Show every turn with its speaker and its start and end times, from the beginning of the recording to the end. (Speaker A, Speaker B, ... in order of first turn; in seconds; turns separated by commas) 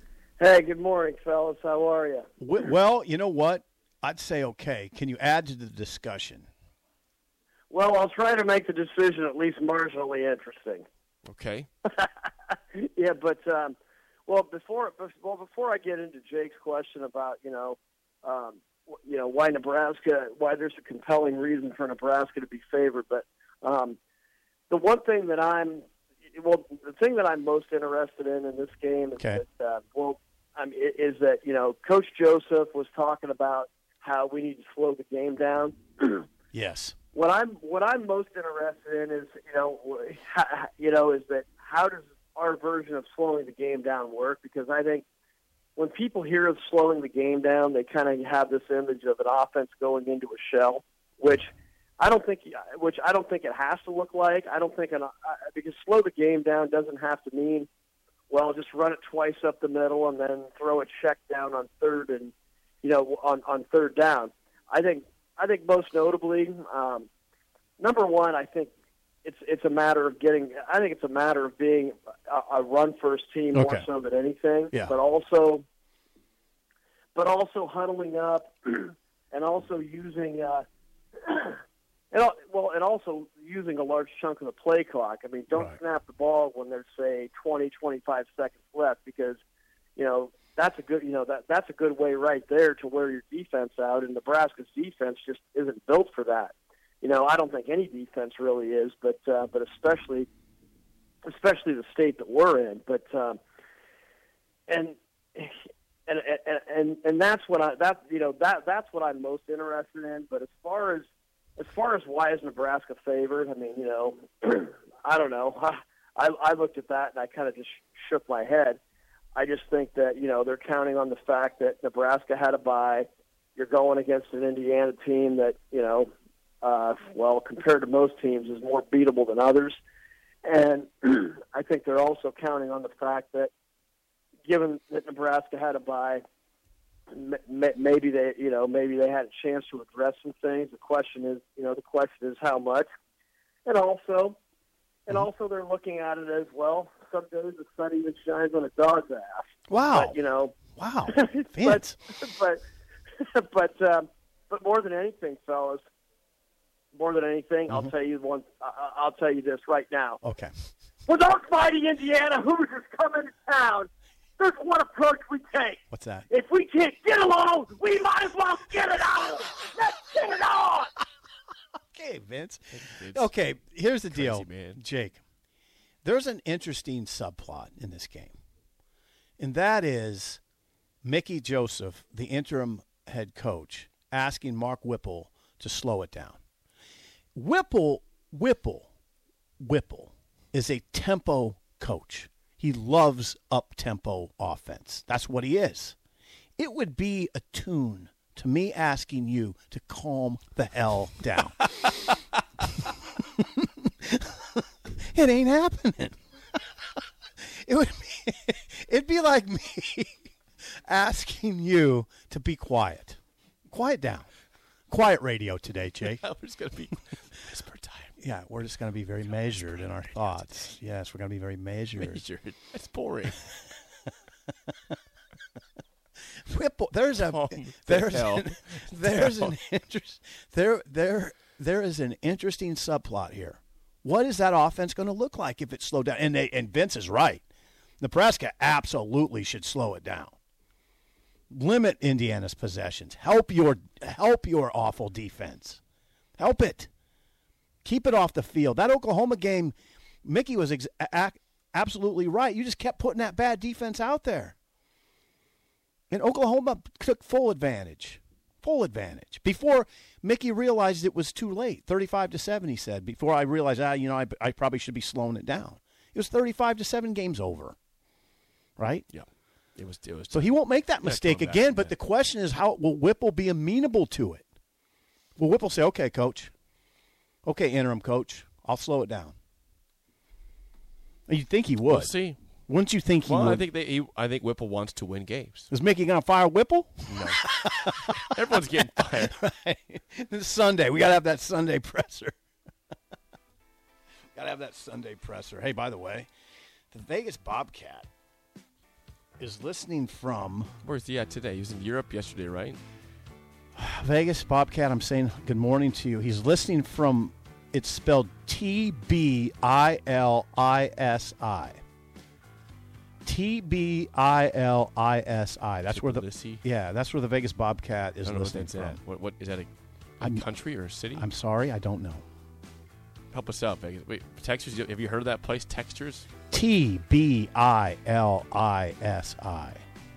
Speaker A: 0.4-2.3, Speaker B: 2.4-6.5, Speaker A: 7.7-10.9, Speaker C: 11.3-11.7, Speaker A: 11.9-24.0, Speaker A: 24.7-36.3, Speaker B: 29.2-29.4, Speaker B: 36.5-37.0, Speaker A: 37.1-45.0, Speaker A: 45.8-57.7, Speaker A: 58.3-67.1, Speaker A: 67.8-68.7, Speaker A: 69.2-75.7, Speaker B: 73.5-73.9, Speaker A: 77.2-80.7, Speaker A: 81.2-81.6, Speaker A: 82.1-89.4, Speaker B: 85.5-85.8, Speaker A: 90.0-100.3, Speaker A: 101.2-103.4, Speaker A: 104.7-118.8, Speaker A: 119.3-126.1, Speaker A: 126.6-129.8, Speaker A: 130.4-133.5, Speaker A: 134.5-136.2, Speaker A: 137.1-142.9, Speaker A: 143.7-144.4, Speaker A: 145.1-152.6, Speaker B: 149.7-150.2, Speaker B: 150.7-152.0, Speaker A: 153.2-155.8, Speaker A: 156.9-160.2, Speaker B: 160.2-160.5, Speaker A: 161.1-170.9, Speaker B: 165.9-166.3, Speaker B: 171.9-175.2, Speaker C: 172.7-173.3, Speaker C: 174.1-174.8, Speaker B: 176.0-178.3, Speaker B: 179.4-180.4, Speaker B: 181.0-186.4, Speaker B: 187.3-188.9, Speaker B: 189.6-196.0, Speaker B: 196.6-202.2, Speaker B: 202.8-206.7, Speaker B: 207.4-213.2, Speaker B: 213.7-214.3, Speaker B: 214.9-216.2, Speaker C: 216.2-218.1, Speaker B: 218.2-222.2, Speaker C: 222.0-223.4, Speaker B: 226.3-237.4, Speaker C: 227.2-229.5, Speaker B: 238.0-240.3, Speaker B: 241.5-245.8, Speaker B: 246.4-246.9, Speaker B: 247.8-254.6, Speaker B: 256.1-267.8, Speaker B: 268.8-269.1, Speaker C: 269.1-271.9, Speaker B: 270.3-274.5, Speaker B: 275.4-276.5, Speaker B: 277.4-279.4, Speaker B: 281.3-282.1, Speaker C: 281.9-282.4, Speaker B: 282.7-283.6, Speaker C: 283.3-285.7, Speaker B: 285.7-292.4, Speaker C: 287.1-289.4, Speaker B: 294.4-296.3, Speaker B: 296.9-298.1, Speaker B: 299.4-300.7, Speaker C: 300.8-302.8, Speaker B: 303.8-311.8, Speaker B: 313.2-319.0, Speaker C: 315.9-316.6, Speaker C: 318.2-321.3, Speaker B: 320.2-320.5, Speaker B: 321.1-322.3, Speaker C: 323.3-326.3, Speaker B: 326.5-329.8